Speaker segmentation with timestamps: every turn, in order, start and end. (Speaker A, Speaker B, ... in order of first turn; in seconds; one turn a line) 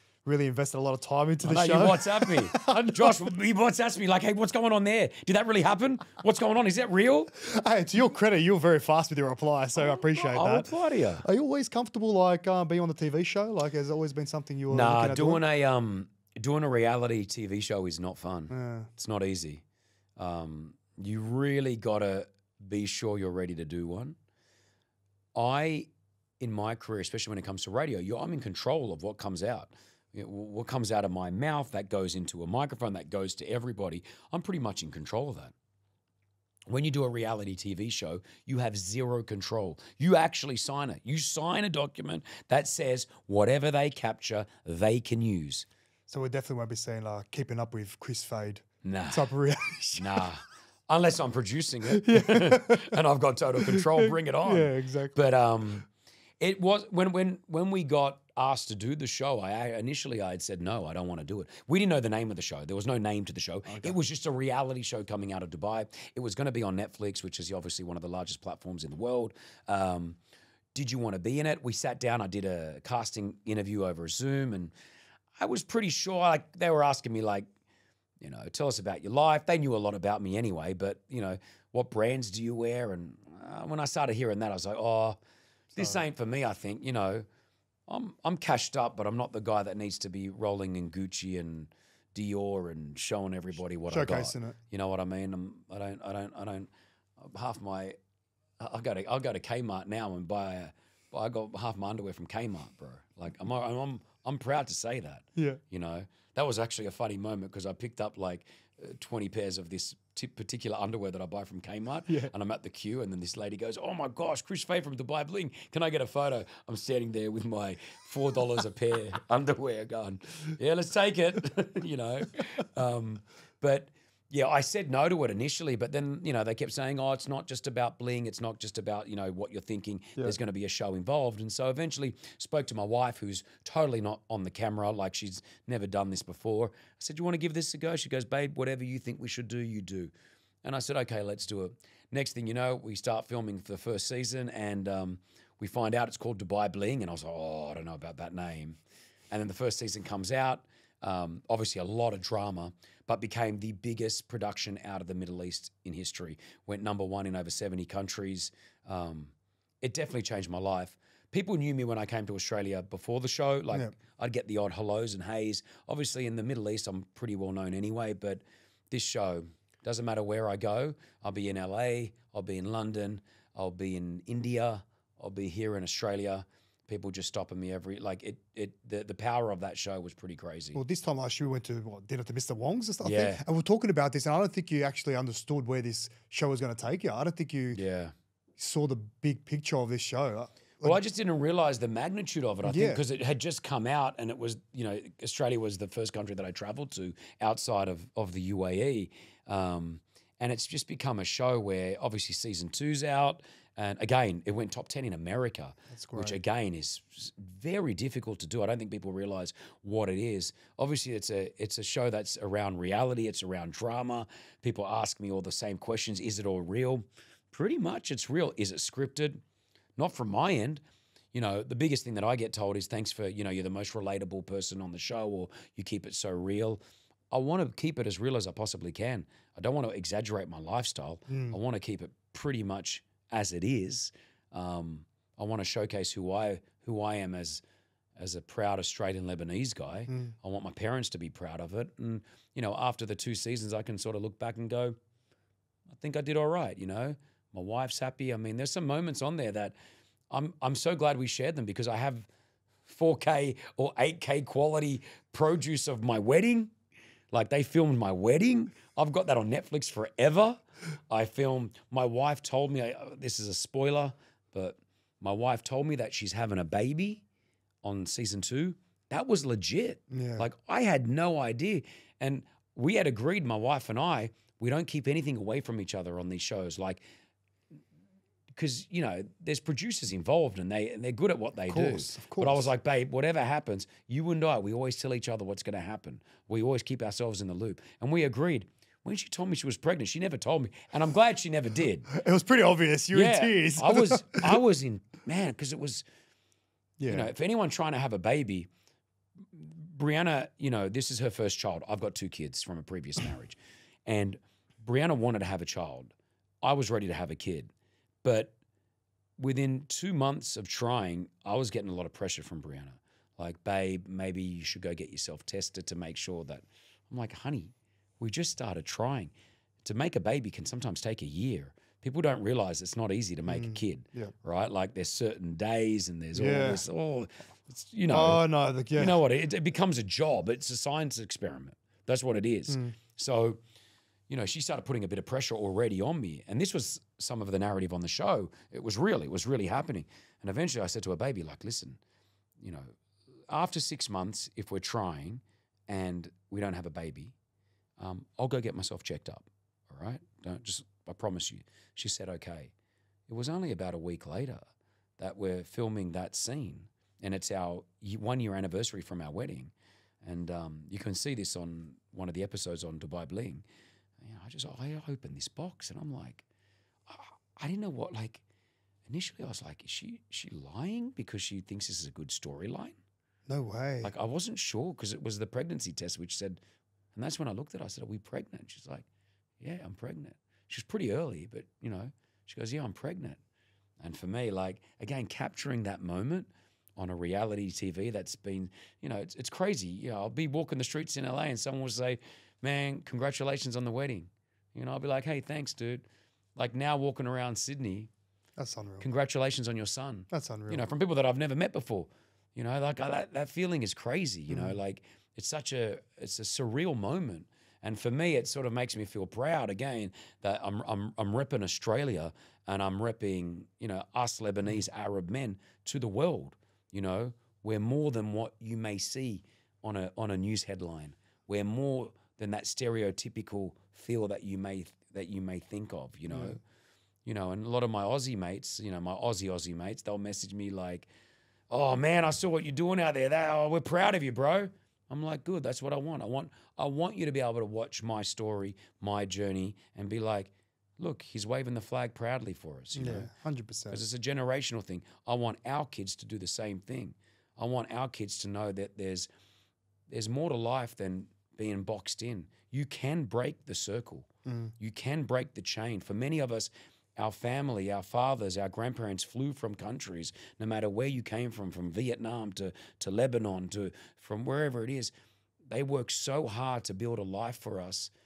Speaker A: 0.2-3.3
Speaker B: 1.4-7.3
Speaker A: 7.3-10.7
Speaker B: 10.1-11.2
Speaker A: 11.2-15.4
Speaker B: 14.7-19.6
Speaker A: 18.5-18.9
Speaker B: 20.2-24.1
Speaker B: 25.3-25.9
Speaker B: 26.4-35.5
Speaker B: 36.7-45.7
Speaker A: 46.1-50.3
Speaker B: 48.8-49.3
Speaker B: 50.0-55.9
Speaker A: 51.9-53.0
Speaker A: 53.5-55.2
Speaker B: 56.4-70.2
Speaker A: 63.7-64.0
Speaker B: 70.7-74.7
Speaker B: 75.4-77.5
Speaker B: 78.2-85.2
Speaker B: 85.7-87.2
Speaker B: 87.9-98.0
Speaker A: 93.9-94.6
Speaker B: 98.6-140.1
Speaker B: 140.6-148.8
Speaker B: 149.3-180.8
Speaker A: 180.7-187.8
Speaker B: 183.0-183.4
Speaker B: 187.7-188.1
Speaker A: 188.6-191.0
Speaker B: 190.8-219.4
Speaker A: 192.6-193.0
Speaker A: 205.9-206.4
Speaker B: 219.9-237.6
Speaker A: 231.3-231.6
Speaker B: 238.2-244.9
Speaker A: 240.1-240.3
Speaker B: 245.9-249.7
Speaker B: 250.3-252.3
Speaker B: 252.8-256.7
Speaker B: 257.3-267.2
Speaker B: 267.8-277.0
Speaker A: 270.1-270.5
Speaker B: 278.5-292.1
Speaker A: 281.7-282.7
Speaker A: 292.1-294.6
Speaker B: 293.1-296.0
Speaker A: 297.0-297.3
Speaker B: 297.1-298.7
Speaker B: 299.5-307.7
Speaker B: 308.2-308.5
Speaker B: 309.4-319.3
Speaker B: 319.8-333.6
Speaker A: 323.5-324.3
Speaker A: 326.3-326.8
Speaker A: 328.1-329.2
Speaker A: 332.7-332.9
Speaker B: 334.3-342.0
Speaker B: 342.6-342.9
Speaker B: 343.5-347.3
Speaker B: 348.0-352.7
Speaker B: 353.3-363.6
Speaker B: 364.2-366.4
Speaker B: 367.1-368.4
Speaker B: 369.1-373.0
Speaker A: 373.5-374.1
Speaker B: 374.0-376.6
Speaker B: 377.1-379.1
Speaker B: 379.6-383.4
Speaker B: 384.0-398.1
Speaker A: 398.6-399.1
Speaker B: 399.0-426.6
Speaker A: 400.3-400.8
Speaker A: 404.5-404.8
Speaker A: 426.3-426.6
Speaker B: 427.2-431.1
Speaker B: 431.7-443.3
Speaker A: 442.9-444.0
Speaker B: 443.9-449.3
Speaker B: 450.1-454.3
Speaker A: 454.4-454.7
Speaker B: 454.8-465.1
Speaker B: 465.7-468.1